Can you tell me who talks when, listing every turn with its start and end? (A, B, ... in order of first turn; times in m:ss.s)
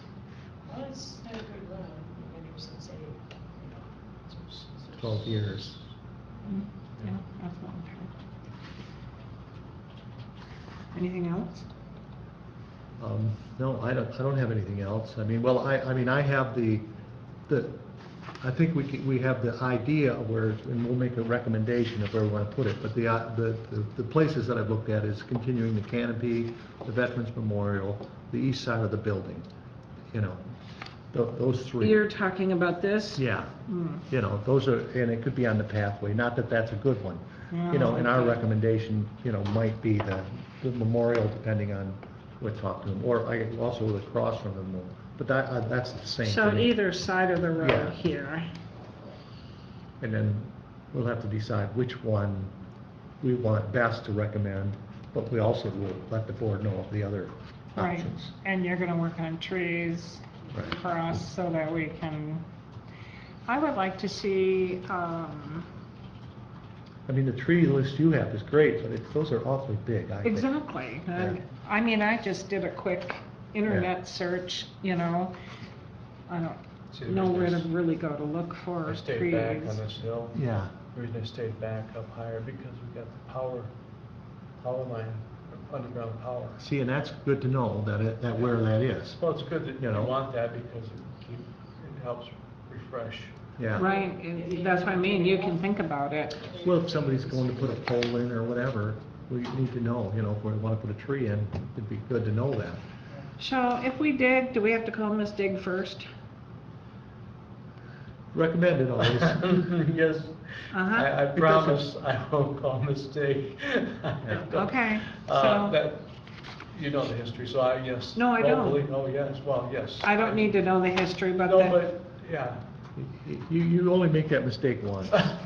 0:00.7-0:04.0 A
0:04.6-0:05.1 A
0:05.0-0:05.8 B
0:05.2-0:05.8 C
0:06.5-0:08.1 D
0:10.9-0:11.7 D
0:13.0-0:16.9 B
0:17.5-0:17.8 B
0:18.4-0:29.5 B
0:30.1-0:30.4 B
0:31.1-0:32.0 B
0:31.8-0:34.0 D
0:33.2-0:33.5 B
0:34.1-0:46.7 B
0:37.5-0:38.4 D
0:46.2-0:48.5 D
0:47.6-0:48.0 B
0:50.0-0:52.5 B
0:53.2-0:58.3 B
0:57.8-1:02.4 D
1:00.5-1:00.8 B
1:03.5-1:05.7 D
1:07.1-1:10.5 B
1:10.2-1:15.4 D
1:11.1-1:11.4 B
1:16.3-1:19.8 D
1:16.9-1:17.7 C
1:18.9-1:20.4 C
1:20.3-1:20.7 B
1:20.9-1:23.7 C
1:24.6-1:26.6 C
1:26.6-1:29.2 B
1:29.2-1:33.5 C
1:29.8-1:30.2 B
1:33.6-1:33.9 B
1:33.8-1:36.4 D
1:33.8-1:37.8 A
1:36.6-1:42.8 B
1:43.4-1:46.1 D
1:48.3-1:49.6 B
1:49.2-1:56.1 C
1:50.7-1:51.1 D
1:51.3-1:51.8 B
1:54.2-1:54.6 B
1:54.5-1:55.8 D
1:56.7-2:00.7 C
1:58.2-1:58.9 D
2:00.0-2:01.8 D
2:01.4-2:02.6 C
2:03.0-2:05.4 B